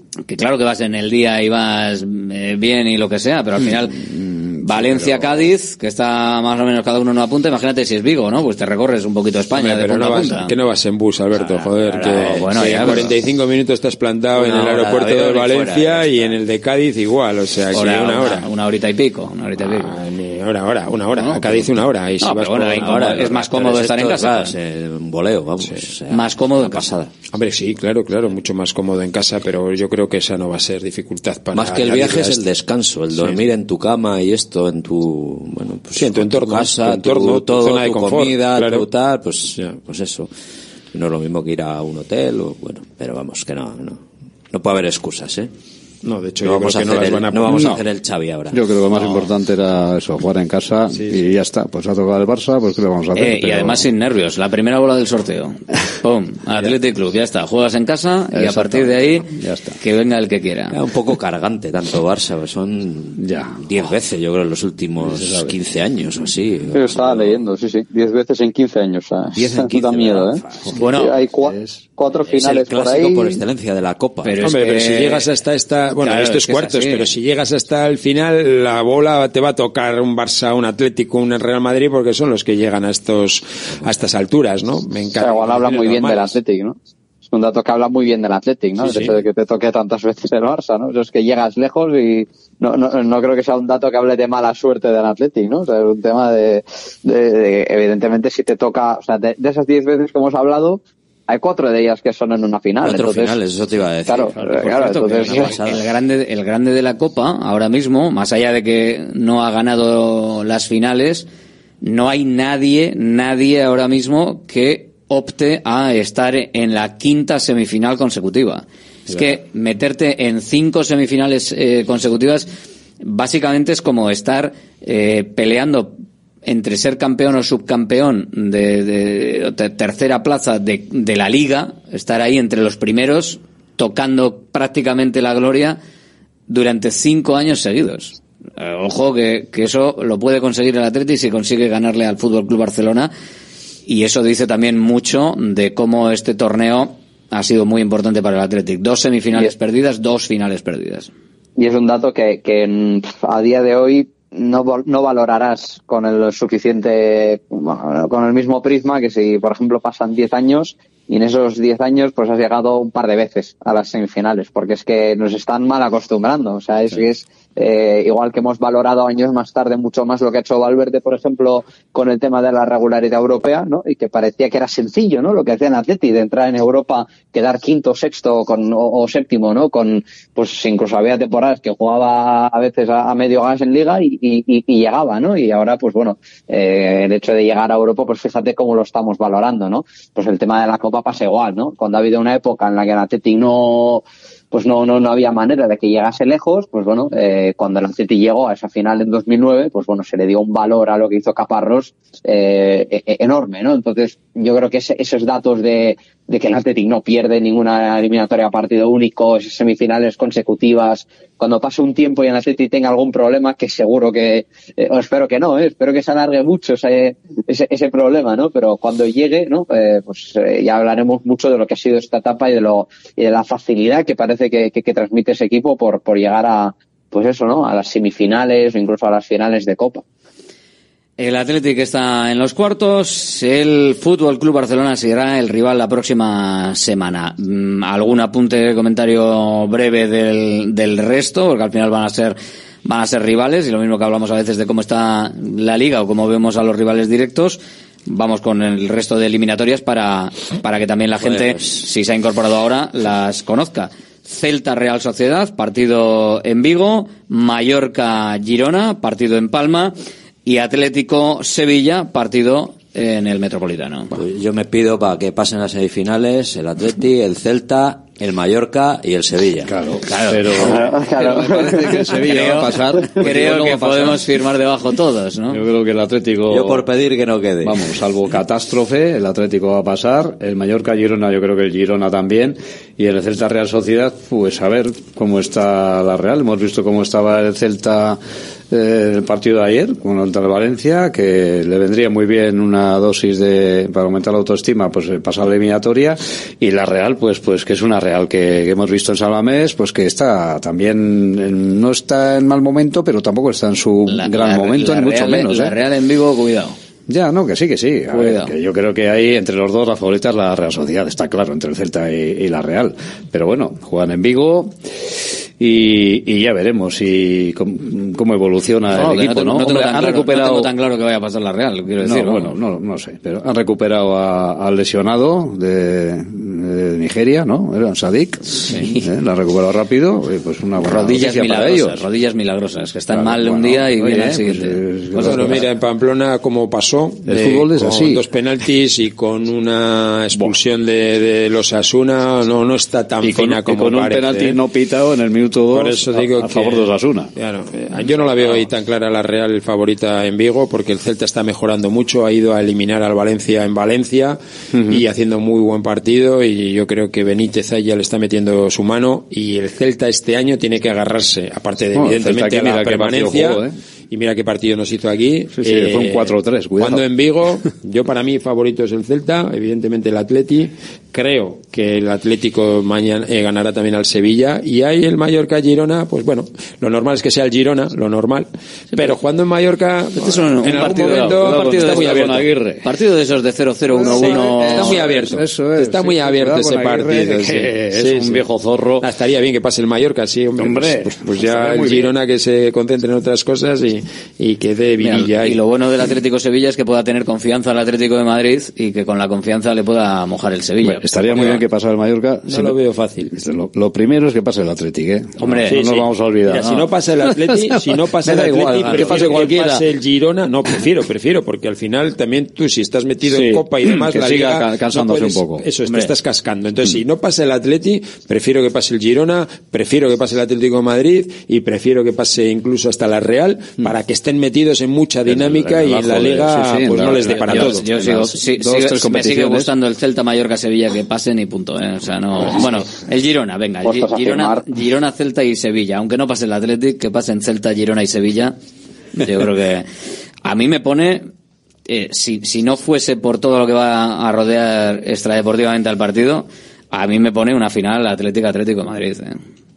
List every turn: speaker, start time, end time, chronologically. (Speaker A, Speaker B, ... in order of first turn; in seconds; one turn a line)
Speaker A: 0.3-4.0
Speaker B: 3.6-5.5
Speaker A: 4.6-10.5
Speaker C: 9.5-18.5
Speaker D: 11.3-13.2
Speaker A: 12.3-13.1
Speaker D: 14.3-16.4
Speaker A: 17.7-20.0
Speaker C: 19.6-23.3
Speaker A: 21.2-24.6
Speaker D: 22.8-27.1
Speaker C: 25.6-25.9
Speaker A: 26.1-26.8
Speaker C: 27.3-32.5
Speaker D: 31.5-40.3
Speaker C: 33.1-33.5
Speaker C: 35.7-38.9
Speaker D: 40.9-45.5
Speaker C: 46.0-47.8
Speaker D: 46.4-48.6
Speaker B: 47.5-47.8
Speaker B: 48.5-53.9
Speaker A: 48.9-49.3
Speaker C: 50.9-51.3
Speaker A: 53.2-60.8
Speaker B: 58.3-59.8
Speaker D: 60.7-67.4
Speaker B: 63.2-63.6
Speaker B: 65.0-65.6
Speaker E: 66.7-73.4
Speaker D: 69.3-70.5
Speaker B: 70.6-71.9
Speaker A: 70.8-71.2
Speaker D: 72.2-74.5
Speaker A: 74.2-75.3
Speaker C: 74.4-86.4
Speaker A: 76.0-77.1
Speaker E: 85.2-103.4
Speaker C: 88.8-89.2
Speaker D: 102.8-105.9
Speaker E: 104.1-105.5
Speaker A: 104.7-111.3
Speaker A: 111.8-122.5
Speaker A: 123.0-125.9
Speaker A: 126.5-135.8
Speaker A: 136.5-143.1
Speaker A: 143.9-151.1
Speaker E: 151.6-230.0
Speaker A: 231.2-259.9
Speaker D: 251.2-251.9
Speaker A: 260.4-264.2
Speaker D: 264.1-269.7
Speaker B: 269.6-274.2
Speaker A: 270.1-275.6
Speaker E: 270.7-272.1
Speaker B: 275.5-276.9
Speaker D: 276.5-277.9
Speaker B: 277.6-288.2
Speaker B: 288.7-305.7
Speaker A: 304.1-306.8
Speaker B: 307.1-314.8
Speaker A: 308.1-308.5
Speaker B: 315.6-320.7
Speaker A: 318.9-322.6
Speaker B: 322.0-332.1
Speaker A: 328.7-329.0
Speaker A: 330.8-334.8
Speaker B: 333.1-335.7
Speaker C: 335.2-344.6
Speaker B: 337.3-338.2
Speaker B: 343.2-347.3
Speaker C: 345.7-354.4
Speaker C: 354.9-382.5
Speaker B: 361.9-363.8
Speaker B: 365.6-367.0
Speaker A: 380.2-385.1
Speaker B: 380.6-382.9
Speaker B: 383.9-389.0
Speaker C: 384.1-388.5
Speaker C: 389.0-395.6
Speaker B: 390.6-392.1
Speaker A: 395.0-401.6
Speaker B: 400.8-402.8
Speaker C: 402.5-403.3
Speaker B: 403.3-409.8
Speaker A: 405.4-405.8
Speaker C: 405.7-428.0
Speaker A: 408.9-409.3
Speaker B: 413.3-416.1
Speaker B: 425.3-429.7
Speaker A: 427.2-438.6
Speaker E: 433.8-434.6
Speaker A: 439.2-439.9
Speaker A: 440.4-441.3
Speaker A: 441.9-449.4